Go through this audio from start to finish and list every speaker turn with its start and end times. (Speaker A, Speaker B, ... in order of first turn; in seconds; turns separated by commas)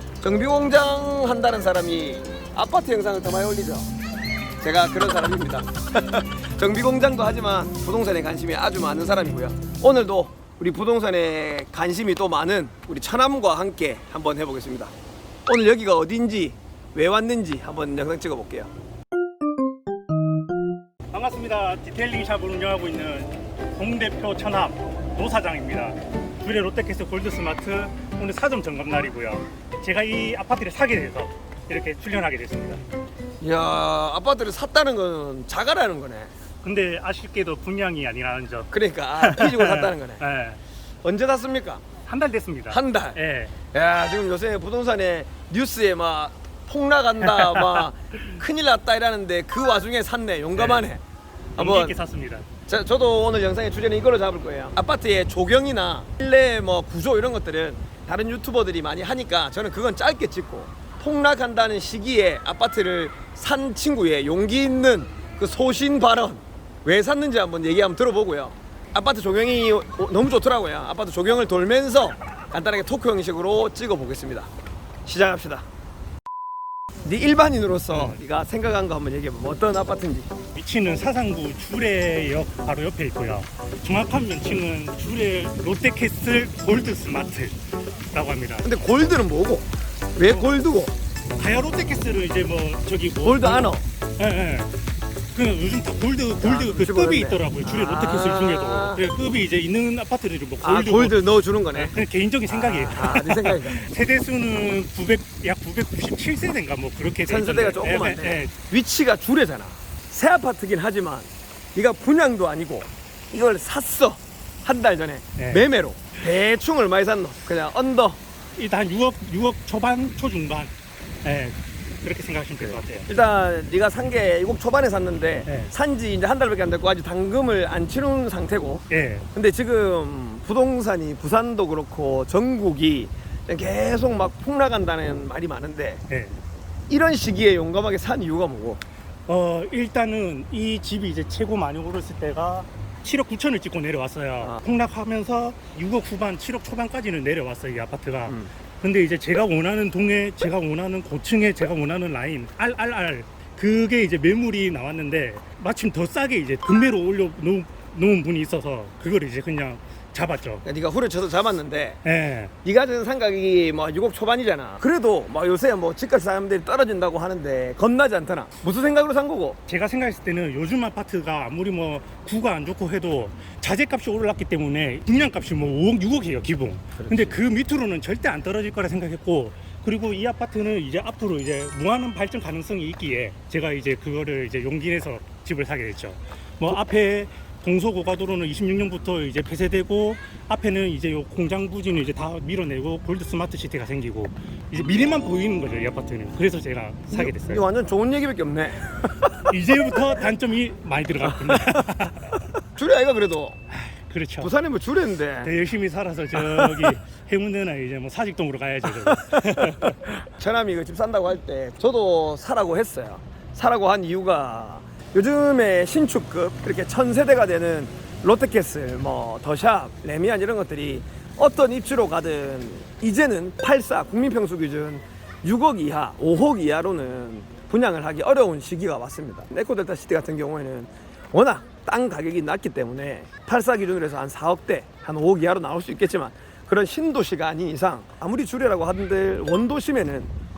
Speaker A: 0.2-3.9, Speaker A: 4.6-14.9, Speaker A: 15.5-18.7, Speaker B: 21.1-32.8, Speaker A: 33.4-36.3, Speaker B: 36.6-40.6, Speaker A: 38.7-40.2, Speaker A: 41.0-41.8, Speaker B: 42.1-43.5, Speaker A: 42.7-43.2, Speaker A: 43.7-51.0, Speaker B: 47.2-47.9, Speaker B: 50.5-50.9, Speaker A: 51.6-52.0, Speaker B: 51.6-52.5, Speaker A: 52.7-74.5, Speaker A: 75.1-75.7, Speaker A: 77.0-80.3, Speaker B: 77.9-78.2, Speaker B: 80.5-88.8, Speaker A: 88.6-90.9, Speaker B: 90.2-90.5, Speaker B: 91.4-94.8, Speaker A: 93.2-93.8, Speaker B: 95.3-101.2, Speaker A: 96.4-99.0, Speaker A: 100.6-102.0, Speaker B: 101.7-108.5, Speaker A: 102.5-103.8, Speaker A: 107.2-118.2, Speaker B: 118.6-120.7, Speaker B: 121.2-123.1, Speaker A: 122.6-136.0, Speaker B: 125.5-125.7, Speaker B: 128.9-129.3, Speaker B: 136.1-136.4, Speaker A: 136.9-138.8, Speaker B: 139.3-160.6, Speaker A: 160.6-162.0, Speaker B: 162.0-162.5, Speaker A: 162.6-169.6, Speaker B: 169.7-197.6, Speaker A: 177.0-177.4, Speaker A: 197.1-199.5, Speaker B: 199.5-202.4, Speaker A: 201.3-201.8, Speaker A: 202.6-203.6, Speaker B: 203.7-204.5, Speaker A: 204.4-205.5, Speaker B: 205.4-210.0, Speaker A: 206.3-206.9, Speaker A: 209.0-240.3